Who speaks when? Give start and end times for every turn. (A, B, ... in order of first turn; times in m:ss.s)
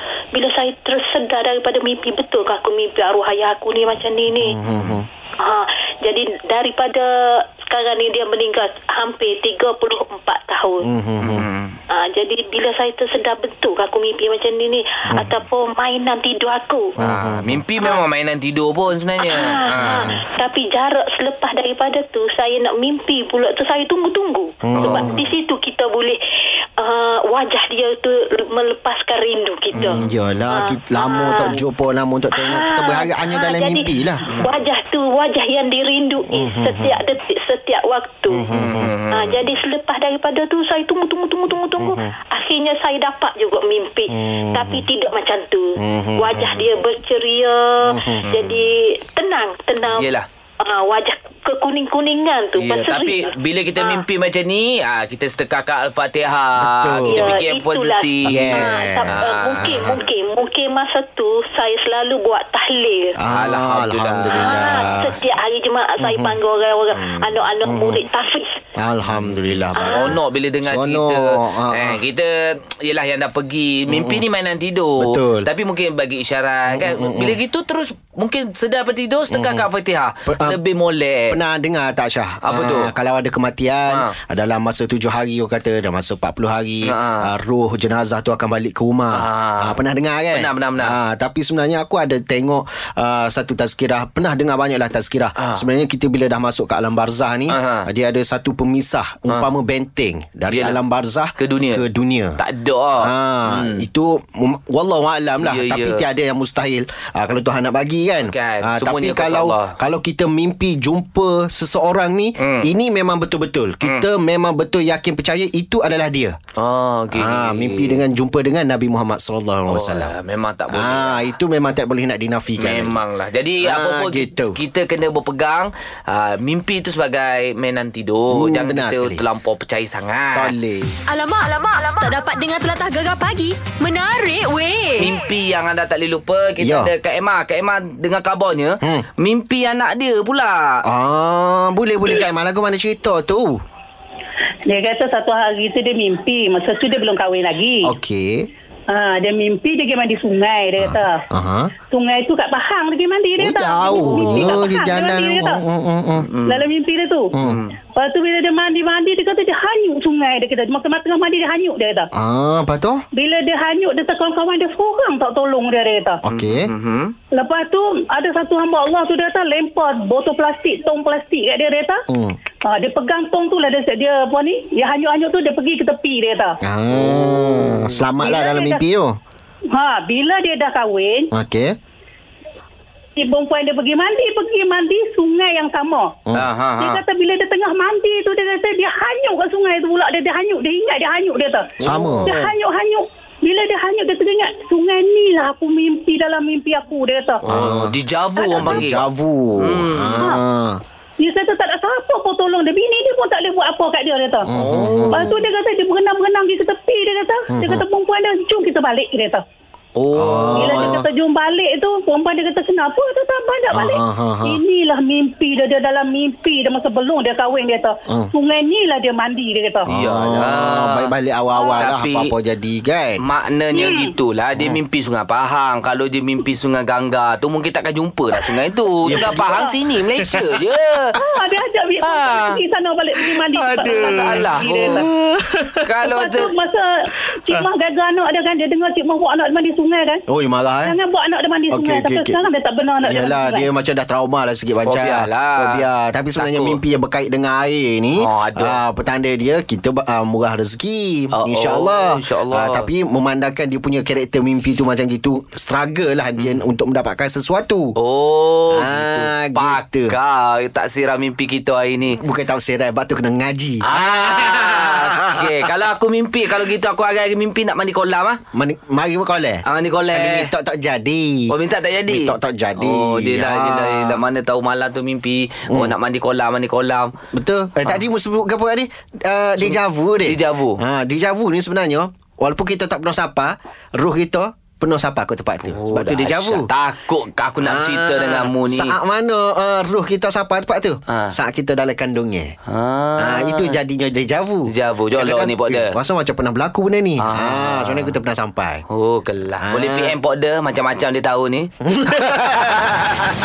0:00.3-0:04.5 A
0:04.4-0:05.0 B
0:05.4-0:07.1 A
0:07.7-0:10.9 A
0:10.8-0:11.4 B
0:11.2-0:11.8 C
0:11.9-0:17.0 A
0:17.0-0:17.6 B
0:17.0-0:20.1 C
0:19.2-0:26.2 A
0:19.8-0:20.2 B
0:24.6-0:25.2 B
0:24.8-0:25.1 C
0:26.8-0:31.6 A
0:29.7-0:34.2 B
0:32.4-0:33.8 A
0:34.4-0:38.4 A
0:36.3-0:36.9 B
0:38.3-0:38.9 B
0:38.5-0:39.5 C
0:39.1-0:50.1 A
0:41.8-0:42.1 B
0:44.2-0:44.9 B
0:45.8-0:46.6 B
0:47.9-0:48.2 B
0:48.3-0:48.6 C
0:49.9-0:50.2 C
0:50.6-0:54.0 A
0:52.6-1:00.0 C
0:56.6-0:57.3 B
0:57.1-1:03.1 A
0:58.3-1:00.0 B
1:03.2-1:05.2 B
1:03.3-1:05.0 C
1:04.3-1:08.6 A
1:06.0-1:06.4 B
1:07.0-1:08.0 B
1:08.8-1:12.0 B
1:09.1-1:21.4 C
1:09.8-1:10.2 A
1:13.9-1:14.2 B
1:15.0-1:15.5 B
1:16.7-1:17.4 B
1:19.3-1:19.7 B
1:20.3-1:20.6 B
1:21.3-1:42.4 B
1:22.4-1:22.9 C
1:26.9-1:27.3 C
1:29.2-1:29.8 C
1:30.3-1:30.9 C
1:37.5-1:37.9 C
1:40.5-1:40.8 C
1:41.4-1:41.8 C
1:42.4-1:43.9 C
1:43.0-1:56.4 B
1:45.4-1:46.0 C
1:48.2-1:49.8 C
1:52.4-1:52.7 C
1:56.6-1:58.0 C
1:57.1-2:00.1 B
1:59.7-2:01.2 C
2:00.7-2:03.0 B
2:02.6-2:10.6 C
2:03.6-2:04.6 B
2:08.3-2:09.2 B
2:10.4-2:11.0 B
2:11.1-2:15.1 D
2:15.0-2:20.8 C
2:16.6-2:16.9 B
2:20.9-2:23.6 B
2:24.7-2:27.9 E
2:27.8-2:28.5 B
2:28.9-2:31.2 E
2:30.8-2:31.7 B
2:31.9-2:35.6 E
2:33.4-2:36.3 B
2:36.3-2:36.6 C
2:36.4-2:37.3 E
2:37.3-2:37.6 B
2:37.4-2:37.7 C
2:37.9-2:42.1 E
2:42.1-2:43.0 B
2:43.1-2:46.2 E
2:46.2-2:46.7 B
2:46.3-2:47.1 C
2:47.3-2:52.0 E
2:52.1-2:52.4 B
2:52.6-2:56.6 E
2:56.6-2:59.2 B
2:56.9-2:58.0 C
2:58.2-2:58.8 E
2:59.7-3:01.3 E
3:01.3-3:01.8 B
3:03.2-3:06.1 E
3:06.4-3:07.0 C
3:06.8-3:17.4 E
3:11.8-3:12.4 B
3:11.8-3:12.5 C
3:17.4-3:17.9 B
3:17.5-3:19.0 C
3:18.4-3:18.9 E
3:18.4-3:20.8 B
3:19.6-3:20.3 C
3:21.2-3:24.5 E
3:24.4-3:25.4 B
3:24.6-3:25.3 C
3:25.1-3:29.4 E
3:27.5-3:27.8 B
3:30.0-3:31.0 C
3:30.2-3:31.0 B
3:30.5-3:39.9 E
3:33.7-3:34.6 B
3:39.9-3:43.2 B
3:39.9-3:41.1 C
3:41.7-3:42.3 C
3:43.2-3:51.2 C
3:43.7-3:44.1 E
3:49.0-3:49.6 B
3:49.1-3:49.7 E
3:51.2-3:55.1 E
3:52.0-3:52.6 C
3:53.4-3:55.8 B
3:53.9-3:54.8 C
3:55.8-3:56.5 C
3:56.0-3:56.9 E
3:57.4-4:00.2 E
4:00.3-4:01.0 B
4:00.9-4:03.7 E
4:01.7-4:02.5 B
4:03.0-4:17.9 B
4:04.8-4:05.8 C
4:06.4-4:06.8 C
4:08.2-4:08.8 C
4:11.4-4:12.9 C
4:16.4-4:16.6 C
4:18.0-4:22.2 C
4:18.7-4:20.1 B
4:22.2-4:25.6 B
4:23.8-4:28.4 C
4:28.5-4:31.5 B
4:29.6-4:30.5 C
4:31.5-4:37.1 C
4:32.1-4:34.2 B
4:35.7-4:35.9 B
4:37.3-4:46.7 B
4:39.6-4:40.8 C
4:45.7-4:48.9 C
4:47.6-4:52.5 B
4:51.1-4:51.4 C
4:52.7-4:53.7 C
4:53.2-4:58.8 B
4:54.7-4:55.9 C
4:57.2-4:58.2 C
4:58.9-5:02.9 C
4:59.6-5:00.2 B
5:01.9-5:03.1 B